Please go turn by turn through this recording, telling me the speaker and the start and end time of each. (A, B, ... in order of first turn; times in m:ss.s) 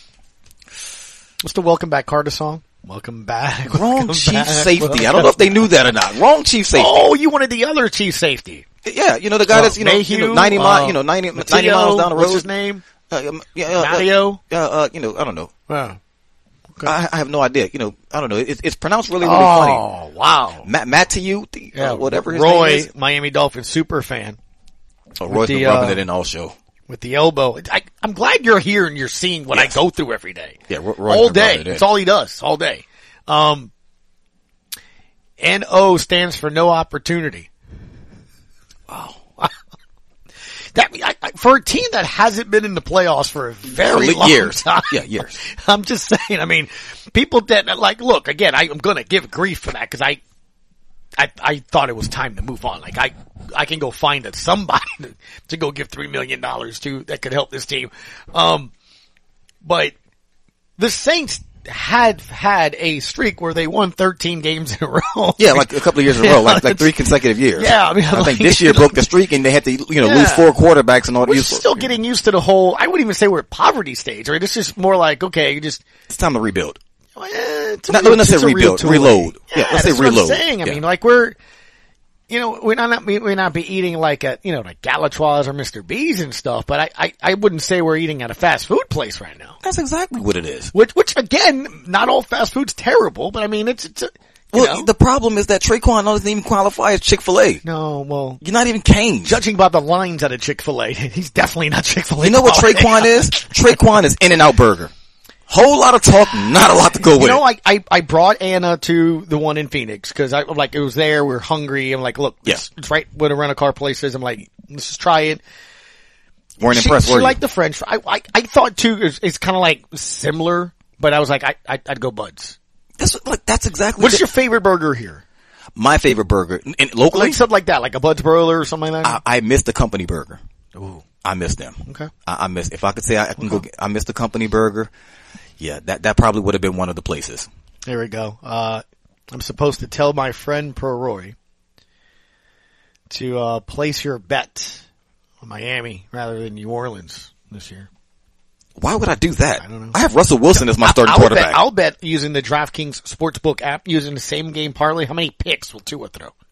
0:01.4-0:05.5 A
0:03.7-0:07.0 B
0:06.8-0:08.6 A
0:08.8-0:12.5 B
0:09.5-0:12.8 A
0:13.1-0:15.5 B
0:13.8-0:14.4 A
0:15.7-0:16.0 A
0:16.8-0:19.8 B
0:19.2-0:20.7 A
0:20.6-0:22.9 B
0:21.8-0:24.4 A
0:25.2-0:26.6 B
0:25.3-0:26.0 A
0:26.9-0:33.7 A
0:30.7-0:31.8 B
0:35.4-0:37.5 A
0:38.9-0:39.2 B
0:40.7-0:50.2 A
0:43.7-0:45.4 B
0:51.2-0:58.7 A
0:59.6-1:00.0 A
1:00.8-1:06.9 A
1:05.4-1:11.9 B
1:07.6-1:08.9 A
1:10.0-1:10.5 A
1:11.2-1:15.8 A
1:16.1-1:16.8 B
1:17.2-1:21.4 A
1:17.9-1:20.8 B
1:22.3-1:29.6 A
1:29.6-1:30.7 B
1:30.7-1:34.9 A
1:34.5-1:37.6 B
1:37.6-1:38.4 A
1:38.4-1:39.4 B
1:39.2-1:43.4 A
1:42.2-1:44.9 B
1:45.5-1:47.4 B
1:47.2-1:55.4 A
1:56.6-1:57.4 B
1:56.7-2:02.6 A
2:03.0-2:04.2 B
2:04.0-2:05.2 A
2:05.8-2:07.4 B
2:07.1-2:09.2 A
2:09.0-2:10.4 B
2:10.8-2:11.0 A
2:11.2-2:14.9 B
2:11.8-2:12.1 A
2:13.4-2:13.6 A
2:15.6-2:17.5 B
2:17.9-2:21.4 A
2:23.1-2:24.9 A
2:25.4-2:27.9 A
2:28.8-2:31.6 B
2:29.6-2:30.0 A
2:30.6-2:36.3 A